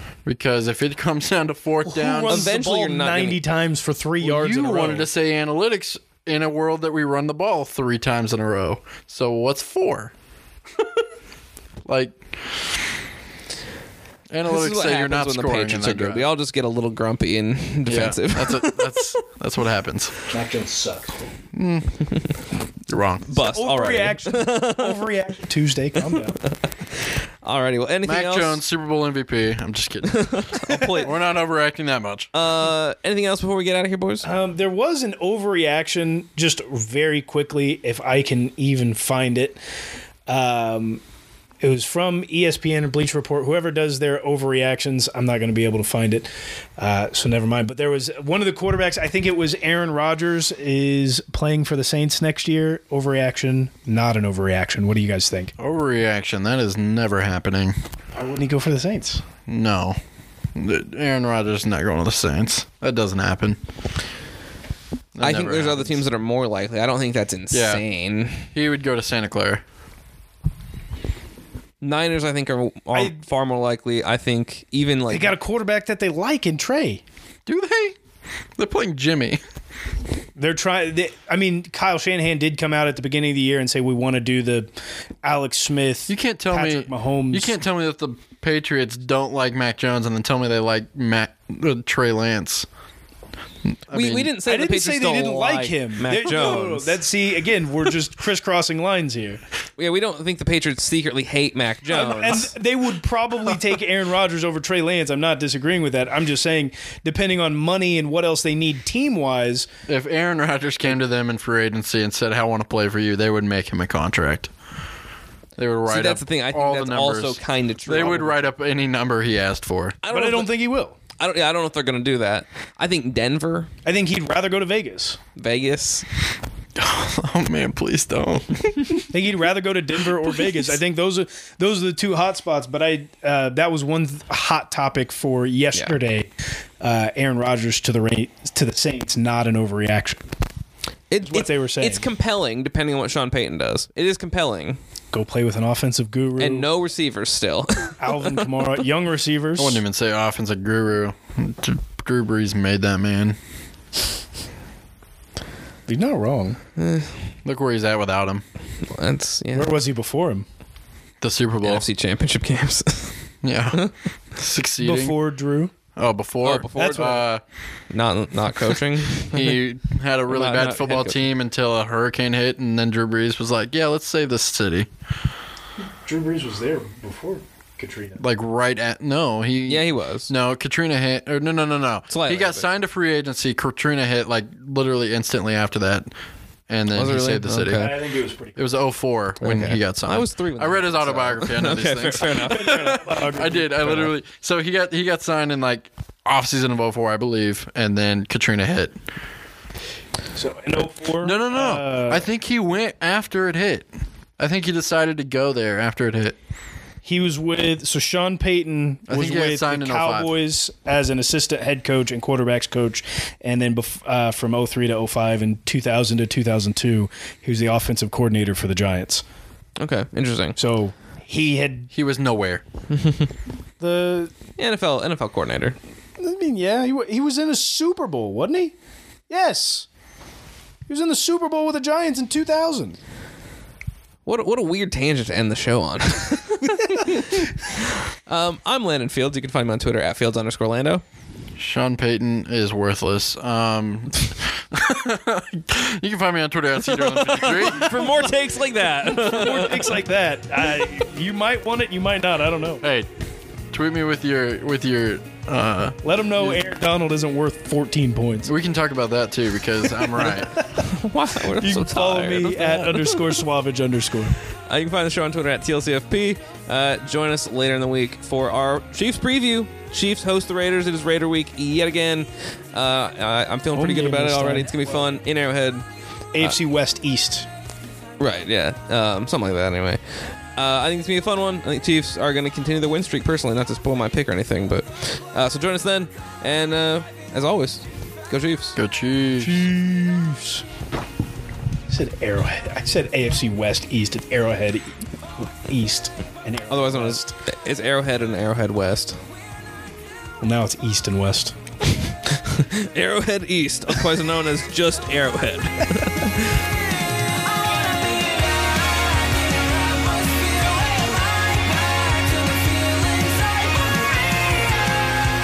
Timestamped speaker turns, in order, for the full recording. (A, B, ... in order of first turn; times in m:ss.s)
0:00.2-0:02.5 A
0:01.8-0:05.1 B
0:02.3-0:03.4 C
0:04.2-0:10.1 A
0:11.9-0:12.5 A
0:14.3-0:16.2 A
0:14.5-0:19.1 C
0:17.8-0:20.1 A
0:20.3-0:21.2 B
0:21.5-0:22.0 A
0:22.9-0:23.2 A
0:23.3-0:25.0 C
0:23.4-0:26.4 B
0:26.0-0:28.6 C
0:28.0-0:32.3 A
0:30.0-0:31.1 C
0:32.3-0:34.2 C
0:34.2-0:39.6 B
0:40.3-0:41.0 B
0:41.6-0:55.5 B
0:55.6-0:57.7 A
0:58.1-0:59.2 B
0:59.5-1:00.0 A
1:00.5-1:03.6 A
1:05.2-1:06.0 A
1:05.2-1:08.5 C
1:07.5-1:07.8 A
1:08.5-1:09.6 A
1:11.8-1:15.3 C
1:15.1-1:17.0 B
1:17.4-1:18.0 A
1:18.6-1:19.4 A
1:20.4-1:24.7 B
1:25.2-1:27.6 B
1:26.1-1:32.7 A
1:33.6-1:34.3 A
1:33.9-1:37.0 C
1:34.4-1:39.4 B
1:39.8-1:42.5 C
1:41.9-1:49.7 B
1:49.9-1:54.5 A
1:55.6-2:00.0 A
1:55.9-1:58.4 C
2:00.0-2:00.5 C
2:00.1-2:01.0 B
2:01.2-2:03.7 C
2:03.8-2:05.2 B
2:05.4-2:06.0 C
2:06.8-2:09.0 A
2:09.1-2:16.3 B
2:16.8-2:20.2 B
2:21.1-2:24.8 C
2:21.2-2:22.1 B
2:25.1-2:26.7 B
2:26.4-2:28.8 C
2:28.0-2:29.8 B
2:29.6-2:33.4 A
2:35.9-2:36.6 B
2:36.8-2:37.1 C
2:37.4-2:38.4 A
2:38.9-2:39.8 C
2:39.5-2:40.4 B
2:41.2-2:41.8 A
2:41.6-2:43.2 C
2:43.4-2:43.8 A
2:44.3-2:45.2 A
2:44.8-2:45.7 B
2:46.0-2:47.4 A
2:46.4-2:47.2 C
2:46.8-2:47.2 B
2:47.9-2:49.6 C
2:49.3-2:54.9 A
2:50.3-2:51.2 C
2:56.0-2:58.2 B
2:58.2-3:06.1 A
2:59.7-3:00.3 C
3:02.1-3:02.7 C
3:06.7-3:08.0 A
3:06.9-3:08.0 C
3:07.7-3:08.6 B
3:08.6-3:18.9 A
3:09.4-3:13.0 C
3:12.3-3:14.1 B
3:20.3-3:22.3 B
3:21.2-3:26.4 A
3:27.0-3:39.2 B
3:29.1-3:30.3 A
3:39.8-3:40.6 C
3:40.6-3:41.9 B
3:41.9-3:42.6 A
3:42.9-3:43.3 C
3:43.8-3:44.3 B
3:44.6-3:45.8 C
3:46.2-3:48.7 B
3:49.3-3:49.9 B
3:50.9-3:53.0 B
3:54.2-4:01.0 C
3:56.8-3:57.4 B
4:01.6-4:08.1 A
4:06.8-4:10.0 C
4:09.0-4:12.8 B
4:12.8-4:13.1 A
4:13.7-4:16.6 A
4:16.0-4:18.5 B
4:18.4-4:20.6 A
4:20.2-4:20.8 B
4:20.7-4:23.4 C
4:21.5-4:24.4 B
4:24.7-4:35.8 C
4:33.7-4:35.0 B
4:36.3-4:37.5 B
4:38.2-4:40.0 C
4:40.6-4:48.8 C
4:48.7-4:49.7 A
4:49.4-4:50.6 B
4:51.9-4:57.3 B
4:56.7-4:59.2 C
5:00.4-5:01.5 B
5:02.3-5:15.0 C